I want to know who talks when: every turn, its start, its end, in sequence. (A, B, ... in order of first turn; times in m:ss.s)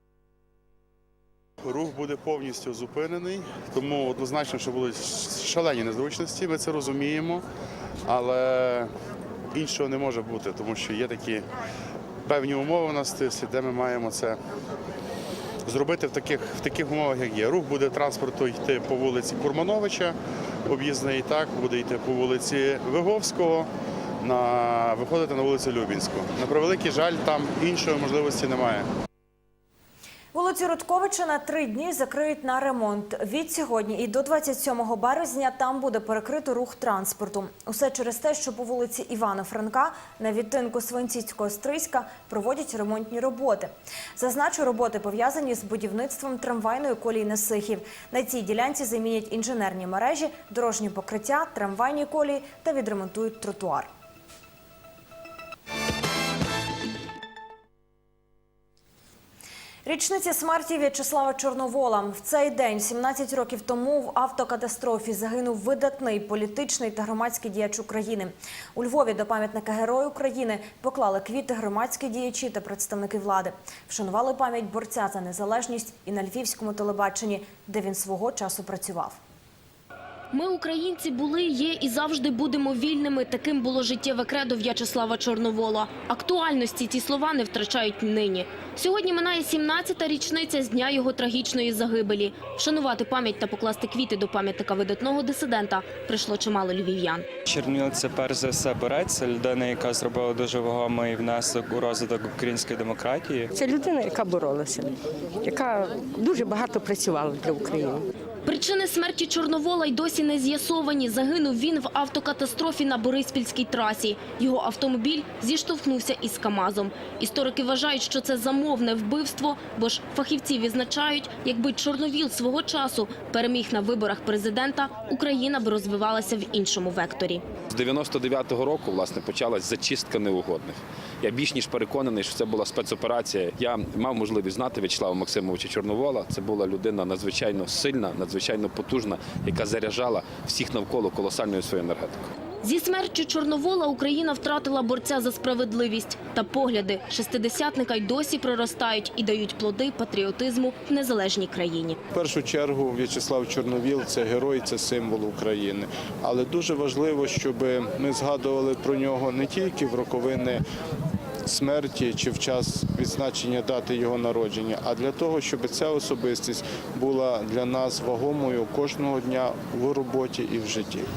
0:01.7-0:07.4 A
0:08.1-0:08.8 A
0:09.5-0:11.4 A
0:12.3-0:14.4 A
0:15.7-0:20.1 A
0:20.7-0:23.6 A
0:24.2-0:28.8 A
0:30.3-0:53.9 B
0:59.8-1:19.2 B
1:20.3-1:37.2 C
1:37.5-1:43.5 D
1:43.5-1:48.0 E
1:48.4-2:07.4 C
2:07.7-2:22.2 F
2:22.6-2:32.0 C
2:32.1-2:40.6 G
2:41.4-2:51.1 G